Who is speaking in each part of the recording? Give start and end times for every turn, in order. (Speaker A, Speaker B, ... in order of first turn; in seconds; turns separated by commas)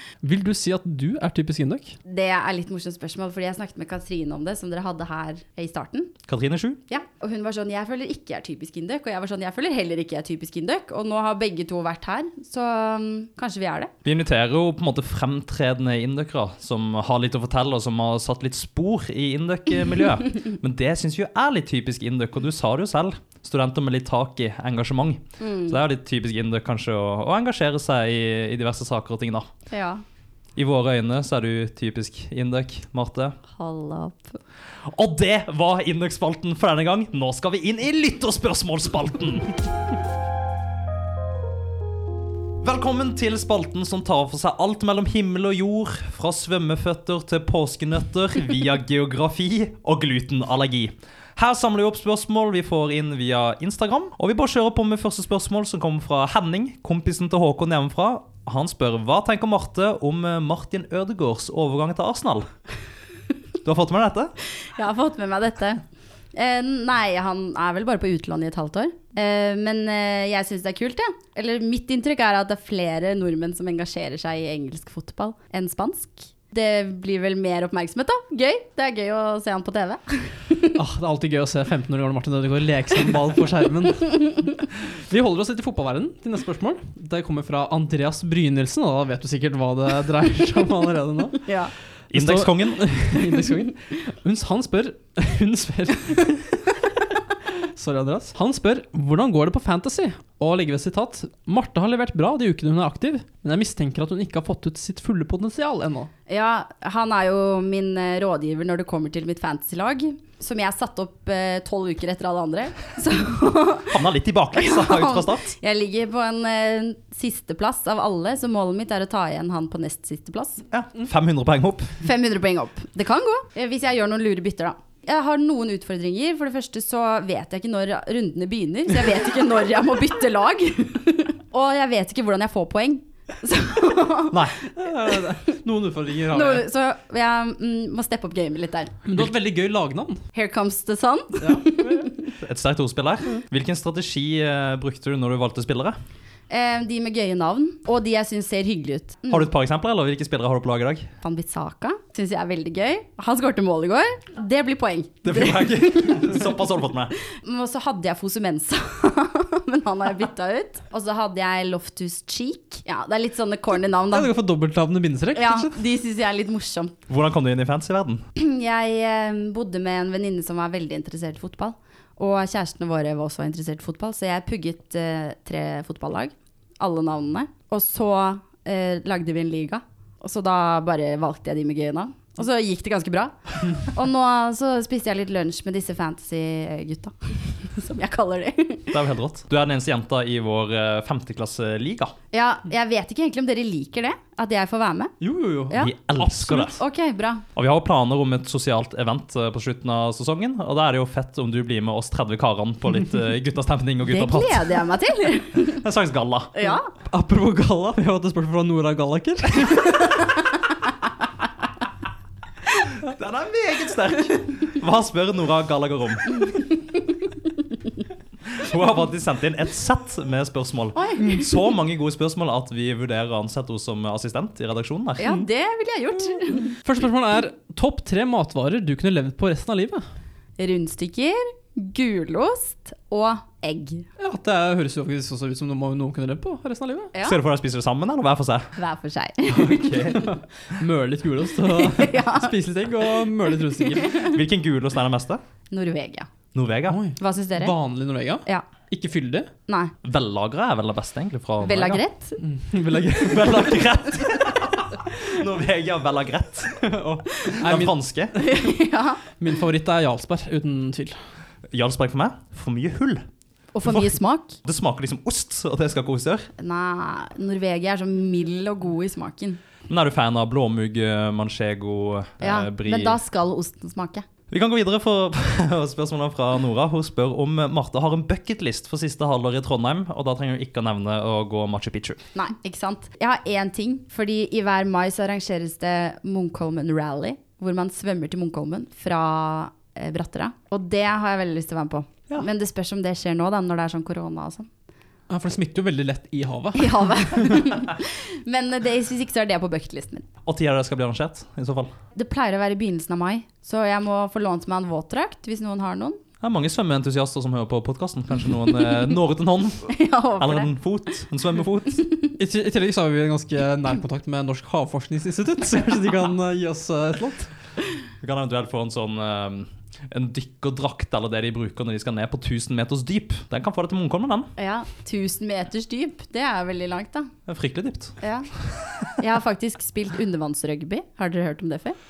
Speaker A: 0.2-1.9, Speaker B: 2.0-6.1, Speaker C: 6.3-6.8, Speaker B: 6.9-13.9, Speaker C: 14.0-29.5, Speaker B: 25.4-25.8, Speaker B: 29.7-30.0, Speaker C: 30.6-33.4, Speaker B: 33.5-34.4, Speaker C: 34.8-39.5, Speaker C: 42.6-62.5, Speaker C: 63.6-64.3, Speaker B: 64.8-65.8, Speaker B: 66.3-80.8, Speaker A: 80.8-91.5, Speaker B: 91.4-91.7, Speaker C: 92.1-92.8, Speaker A: 92.1-96.6, Speaker A: 97.5-106.1, Speaker B: 106.3-114.0, Speaker C: 113.9-115.5, Speaker B: 114.5-120.6, Speaker C: 120.7-121.9, Speaker B: 122.0-135.6, Speaker C: 134.3-134.6, Speaker A: 134.8-136.6, Speaker B: 136.3-138.9, Speaker A: 139.0-140.2, Speaker B: 140.3-142.3, Speaker A: 141.4-142.1, Speaker C: 142.4-145.9, Speaker B: 146.5-149.5, Speaker C: 149.3-151.1, Speaker B: 151.2-156.4, Speaker C: 155.2-157.1, Speaker B: 157.2-164.3, Speaker A: 164.1-165.7, Speaker B: 165.3-167.0, Speaker C: 167.1-168.2, Speaker B: 168.3-188.9, Speaker C: 188.9-192.1, Speaker B: 192.3-195.1, Speaker A: 195.2-195.8, Speaker B: 195.7-197.4, Speaker C: 195.7-196.8, Speaker C: 197.5-204.7, Speaker B: 204.0-205.8, Speaker C: 205.7-206.7, Speaker B: 206.5-206.9, Speaker A: 207.1-210.2, Speaker B: 210.1-210.9, Speaker C: 213.0-216.4, Speaker B: 216.4-216.7, Speaker C: 218.5-225.3, Speaker B: 220.9-221.4, Speaker A: 221.2-221.5, Speaker B: 225.2-226.8, Speaker A: 226.7-230.0, Speaker B: 230.6-234.1, Speaker A: 234.2-237.1, Speaker C: 237.2-238.7, Speaker B: 238.8-240.3, Speaker C: 239.5-240.3, Speaker A: 240.3-244.2, Speaker B: 241.7-242.5, Speaker B: 244.0-244.4, Speaker C: 244.2-245.4, Speaker B: 245.7-246.3, Speaker C: 246.5-247.0, Speaker A: 246.9-249.5, Speaker B: 247.2-247.7, Speaker B: 249.7-249.9, Speaker C: 250.0-252.0, Speaker B: 251.6-252.4, Speaker A: 252.4-253.8, Speaker C: 253.2-256.8, Speaker A: 256.8-258.7, Speaker C: 257.6-258.3, Speaker B: 258.4-259.2, Speaker A: 259.4-261.2, Speaker C: 261.7-263.3, Speaker B: 263.7-264.6, Speaker C: 263.8-266.5, Speaker B: 266.6-269.6, Speaker C: 269.9-273.2, Speaker B: 272.4-274.2, Speaker C: 274.5-282.2, Speaker B: 282.3-294.7, Speaker A: 295.3-297.6, Speaker B: 296.8-300.2, Speaker C: 300.4-301.9, Speaker B: 302.1-306.2, Speaker C: 306.4-312.1, Speaker B: 309.9-310.7, Speaker A: 312.4-317.5, Speaker C: 318.2-324.5, Speaker B: 324.6-327.3, Speaker C: 327.5-329.1, Speaker B: 328.2-328.5, Speaker B: 329.1-332.0